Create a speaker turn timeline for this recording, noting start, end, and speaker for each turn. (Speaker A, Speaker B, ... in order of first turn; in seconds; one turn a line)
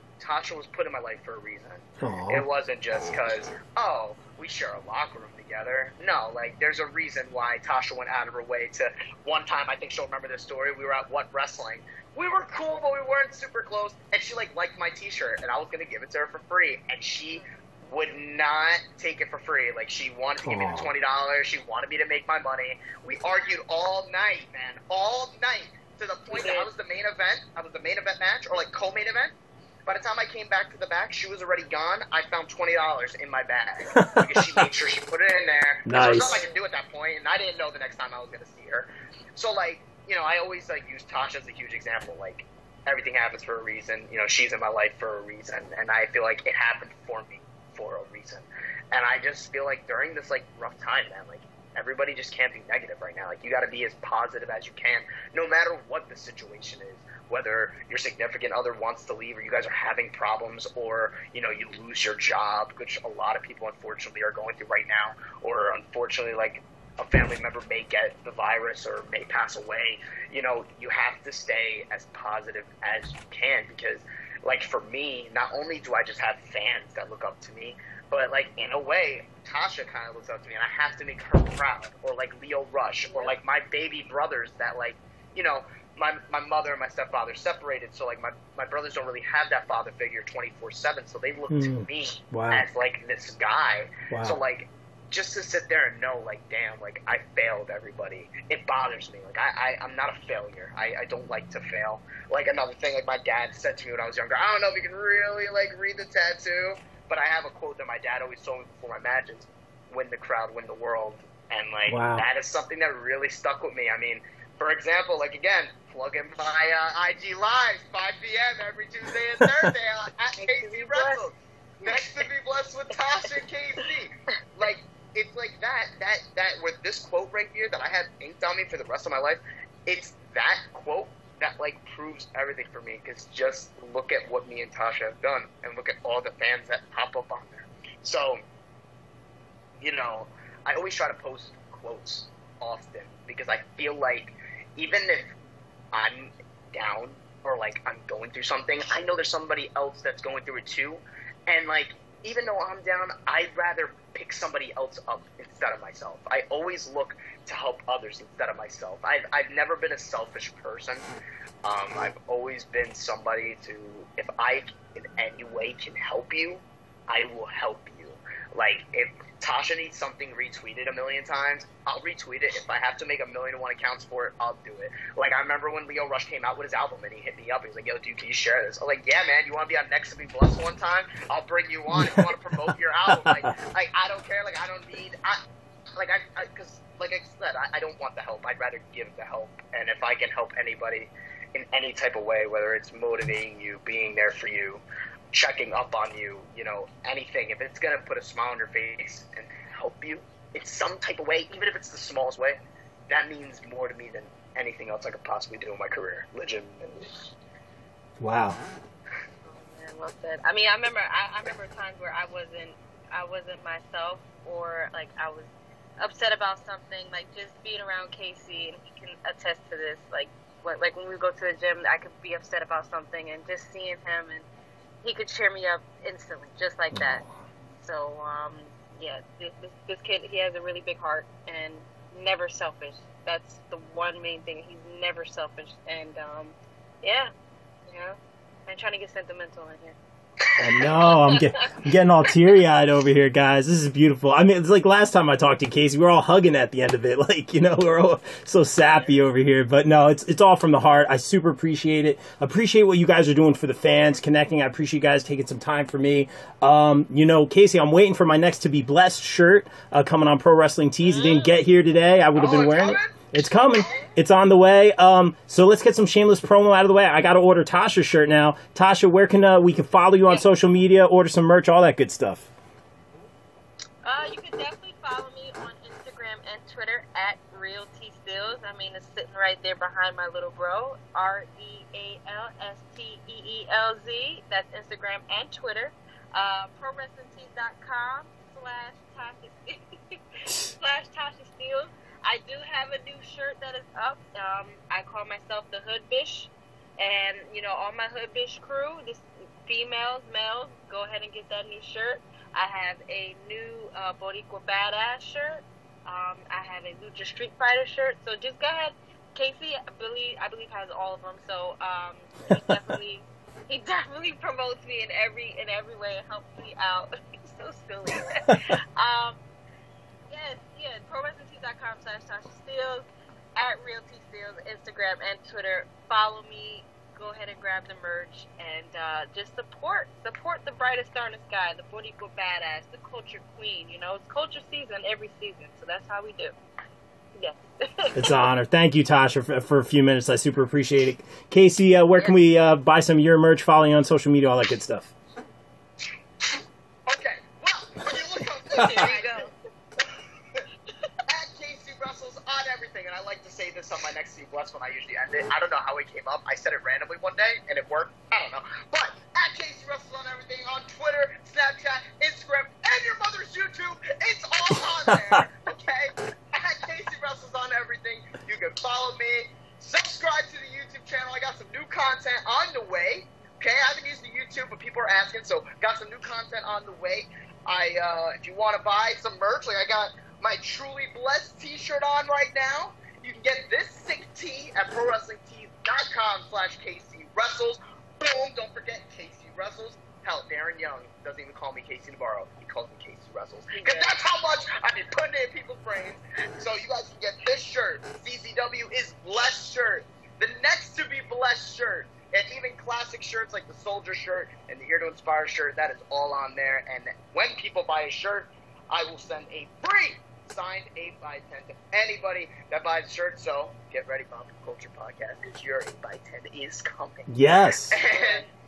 Speaker A: 0.2-138.4
Speaker B: 2.0-2.5
Speaker B: 20.4-20.9
Speaker C: 26.3-26.7
Speaker B: 35.9-36.4
Speaker B: 91.5-92.7
Speaker B: 94.1-94.4
Speaker B: 111.9-112.2
Speaker C: 120.4-121.3
Speaker A: 139.8-145.3
Speaker A: 145.9-161.1
Speaker A: 161.6-185.4
Speaker B: 181.9-182.4
Speaker B: 183.1-183.5
Speaker A: 185.9-207.3
Speaker B: 208.2-208.6
Speaker C: 209.5-224.5
Speaker C: 225.0-227.2
Speaker C: 227.8-237.3
Speaker C: 237.9-240.0
Speaker B: 240.6-272.5
Speaker C: 241.0-241.7
Speaker C: 261.1-261.5
Speaker A: 262.4-263.2
Speaker C: 274.0-319.4
Speaker C: 320.3-336.6
Speaker C: 337.4-338.4
Speaker B: 338.1-345.1
Speaker A: 347.1-349.5
Speaker C: 348.7-349.5
Speaker A: 351.3-418.5
Speaker C: 393.7-394.1
Speaker B: 417.3-418.0
Speaker C: 418.0-418.5